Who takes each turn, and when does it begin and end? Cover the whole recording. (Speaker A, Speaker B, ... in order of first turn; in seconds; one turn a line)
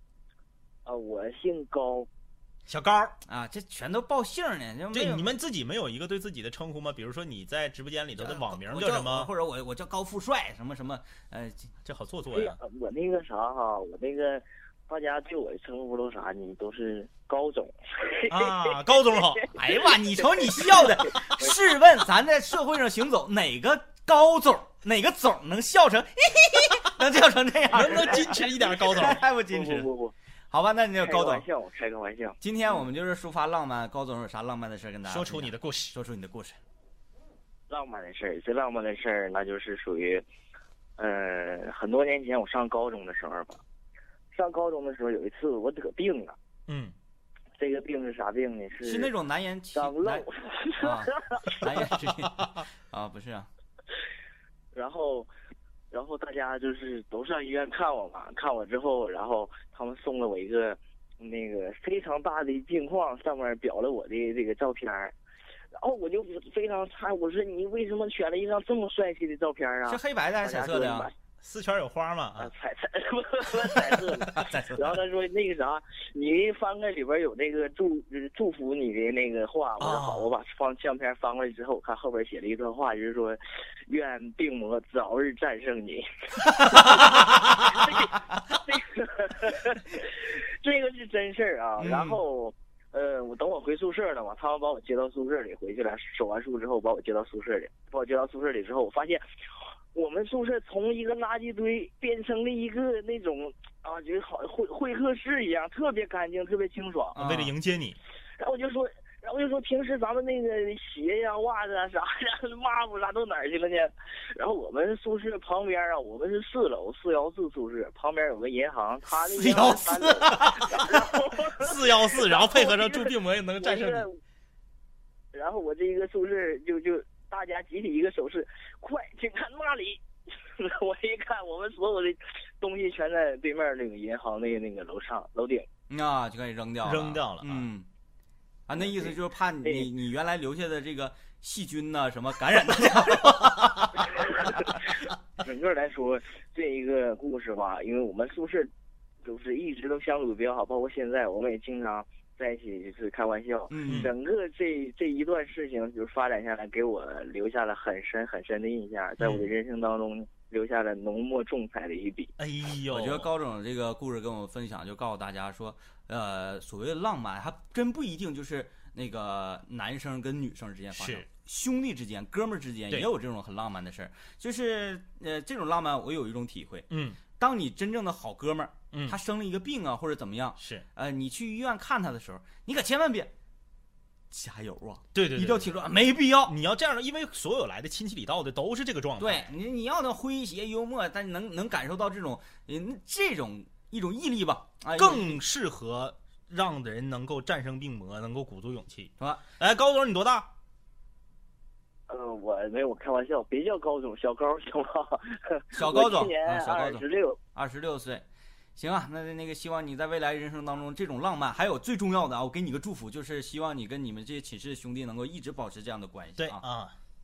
Speaker A: 0.9-2.1
Speaker B: 2.7-3.2
Speaker C: 3.3-5.3
Speaker B: 4.9-9.3
Speaker C: 8.2-11.7
Speaker B: 11.8-12.6
Speaker A: 12.3-19.5
Speaker B: 18.3-19.6
Speaker C: 19.6-28.4
Speaker A: 20.5-21.5
Speaker B: 27.7-29.2
Speaker C: 28.9-29.9
Speaker A: 29.5-30.1
Speaker C: 30.5-31.4
Speaker A: 31.0-32.4
Speaker C: 32.4-36.6
Speaker B: 35.0-36.0
Speaker A: 37.7-40.2
Speaker A: 41.0-43.6
Speaker A: 44.3-46.4
Speaker B: 46.7-46.9
Speaker A: 47.6-49.1
Speaker C: 48.8-50.3
Speaker A: 49.8-51.8
Speaker C: 50.8-53.5
Speaker A: 54.7-55.3
Speaker A: 55.9-65.1
Speaker A: 65.7-71.1
Speaker C: 69.9-71.1
Speaker B: 71.4-72.5
Speaker A: 72.4-99.2
Speaker B: 79.8-80.3
Speaker C: 91.8-92.2
Speaker A: 99.9-107.2
Speaker C: 107.2-107.5
Speaker B: 107.2-108.0
Speaker A: 108.4-124.2
Speaker B: 119.4-120.9
Speaker B: 121.6-124.1
Speaker A: 125.3-130.0
Speaker A: 130.6-135.7
Speaker C: 135.9-137.9
Speaker B: 136.8-137.7
Speaker C: 138.7-144.0
Speaker A: 138.7-139.9
Speaker A: 144.1-144.8
Speaker A: 145.4-148.7
Speaker A: 149.2-162.3
Speaker C: 153.7-154.1
Speaker B: 153.9-154.1
Speaker B: 159.2-159.5
Speaker B: 162.4-163.3
Speaker C: 162.9-176.9
Speaker B: 170.9-171.3
Speaker B: 176.9-177.2
Speaker C: 177.4-183.3
Speaker B: 178.9-179.2
Speaker B: 180.6-180.8
Speaker C: 184.3-186.5
Speaker B: 185.1-185.8
Speaker B: 186.4-189.5
Speaker C: 189.2-195.4
Speaker B: 194.9-200.5
Speaker A: 202.1-207.4
Speaker C: 205.7-207.0
Speaker C: 207.6-208.2
Speaker C: 208.8-216.6
Speaker B: 216.4-216.9